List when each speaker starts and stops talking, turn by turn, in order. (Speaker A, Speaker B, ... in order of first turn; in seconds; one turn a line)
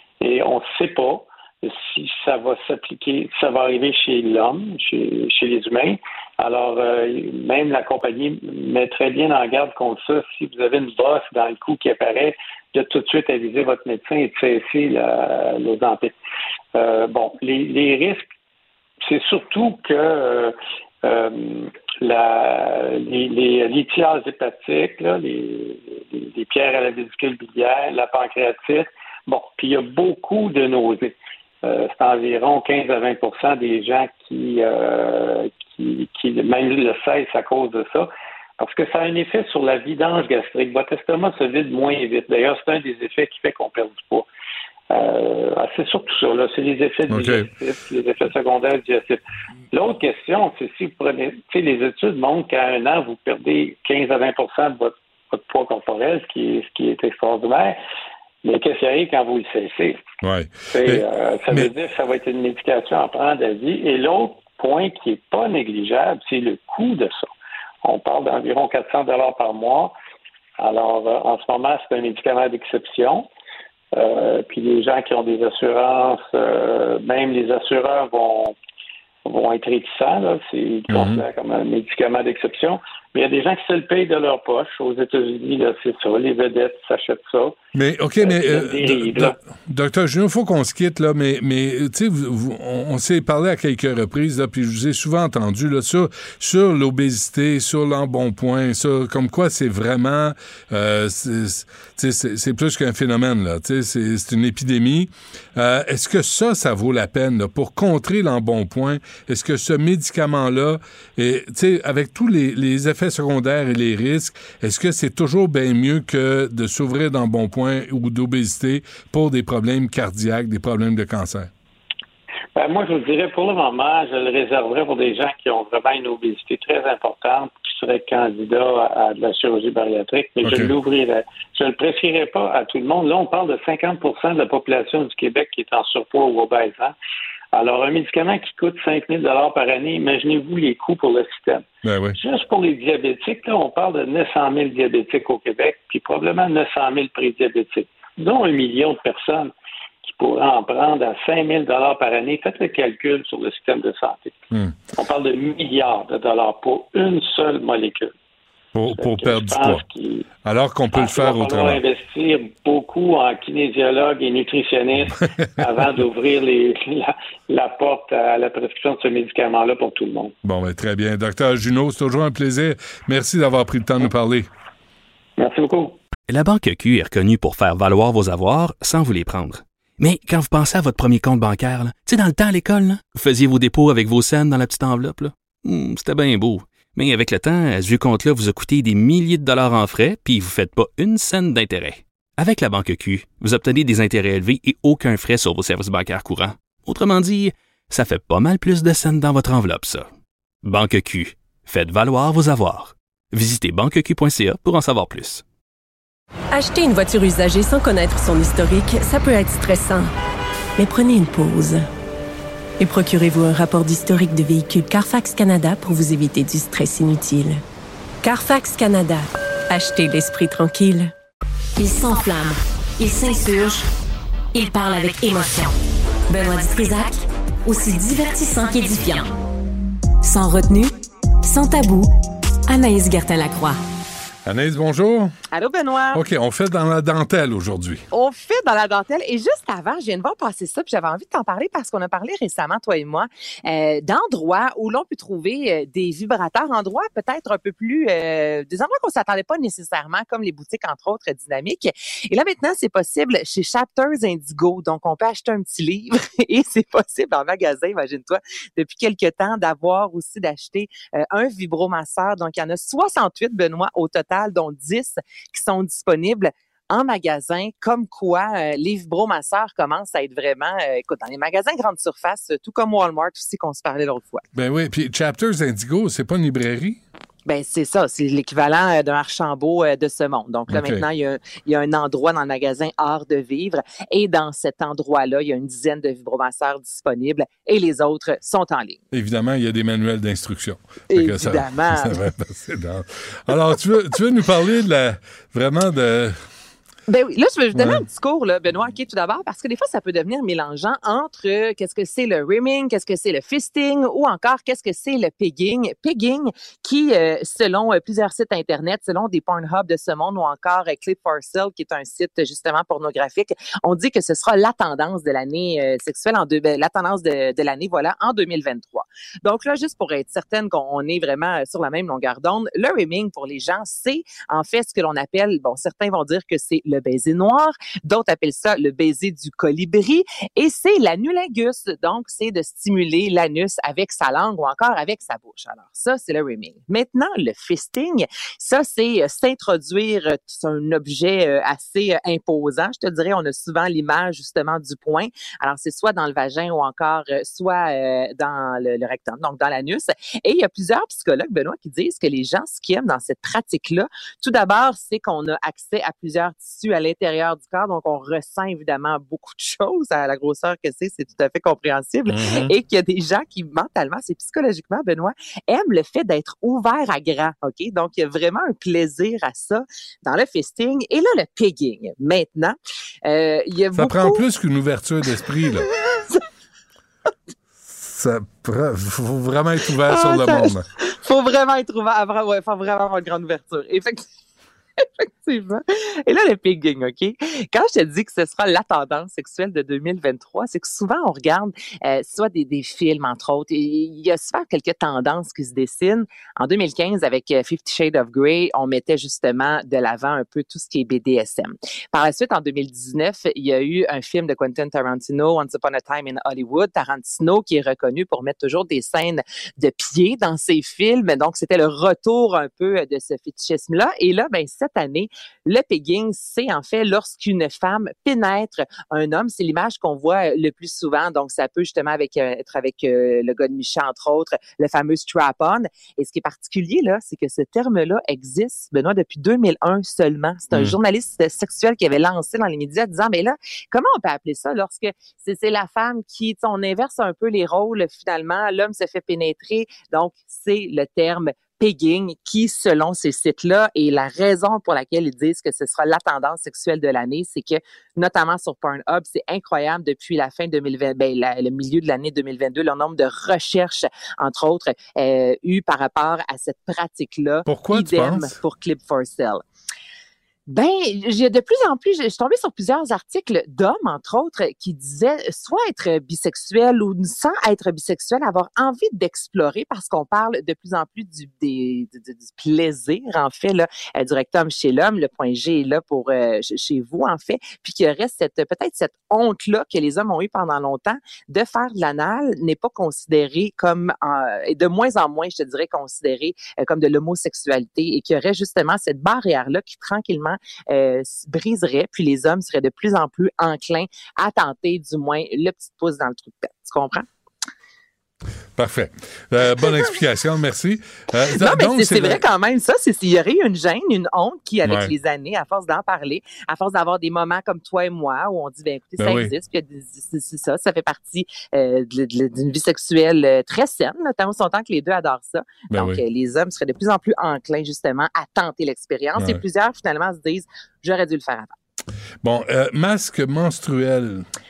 Speaker A: 0.2-16.1
Speaker A: 16.8-18.3
Speaker A: 19.0-44.3
Speaker A: 44.9-49.2
Speaker B: 47.1-47.5
Speaker A: 49.7-57.8
Speaker A: 58.4-60.0
Speaker B: 60.2-61.7
Speaker A: 60.7-67.3
Speaker A: 67.8-69.9
Speaker A: 70.6-73.3
Speaker A: 73.9-78.6
Speaker A: 79.2-87.5
Speaker B: 80.9-81.2
Speaker B: 87.8-121.5
Speaker A: 88.2-89.4
Speaker A: 122.6-136.9
Speaker B: 130.4-130.8
Speaker A: 137.5-141.7
Speaker B: 141.8-142.2
Speaker A: 142.2-149.5
Speaker A: 150.0-154.4
Speaker B: 154.5-154.8
Speaker A: 155.0-158.1
Speaker B: 158.8-159.8
Speaker A: 159.0-160.3
Speaker B: 160.4-161.8
Speaker A: 160.9-170.3
Speaker B: 170.4-174.5
Speaker A: 175.4-176.0
Speaker C: 176.3-200.1
Speaker C: 200.6-205.4
Speaker D: 206.5-210.1
Speaker D: 210.8-211.9
Speaker D: 212.8-217.6
Speaker D: 218.2-221.1
Speaker E: 221.8-223.9
Speaker E: 224.5-225.8
Speaker E: 226.3-229.3
Speaker E: 230.2-230.9
Speaker E: 231.4-232.1
Speaker E: 232.7-233.8
Speaker B: 234.4-235.3
Speaker F: 235.5-236.2
Speaker B: 236.1-238.1
Speaker F: 238.1-274.4
Speaker B: 274.6-277.0
Speaker F: 277.5-289.0
Speaker B: 280.7-281.1
Speaker B: 289.1-296.4
Speaker F: 291.1-292.2
Speaker F: 297.1-374.4
Speaker B: 297.8-298.0
Speaker B: 362.3-362.7
Speaker B: 373.9-375.9
Speaker F: 375.8-376.4
Speaker B: 377.9-380.9
Speaker F: 380.0-384.3
Speaker F: 385.0-459.6
Speaker B: 457.7-458.6
Speaker F: 460.7-497.2
Speaker B: 498.8-502.4
Speaker F: 501.5-521.7
Speaker B: 504.9-505.1
Speaker B: 509.2-509.5
Speaker B: 515.9-516.2
Speaker B: 519.4-519.6
Speaker B: 522.4-524.5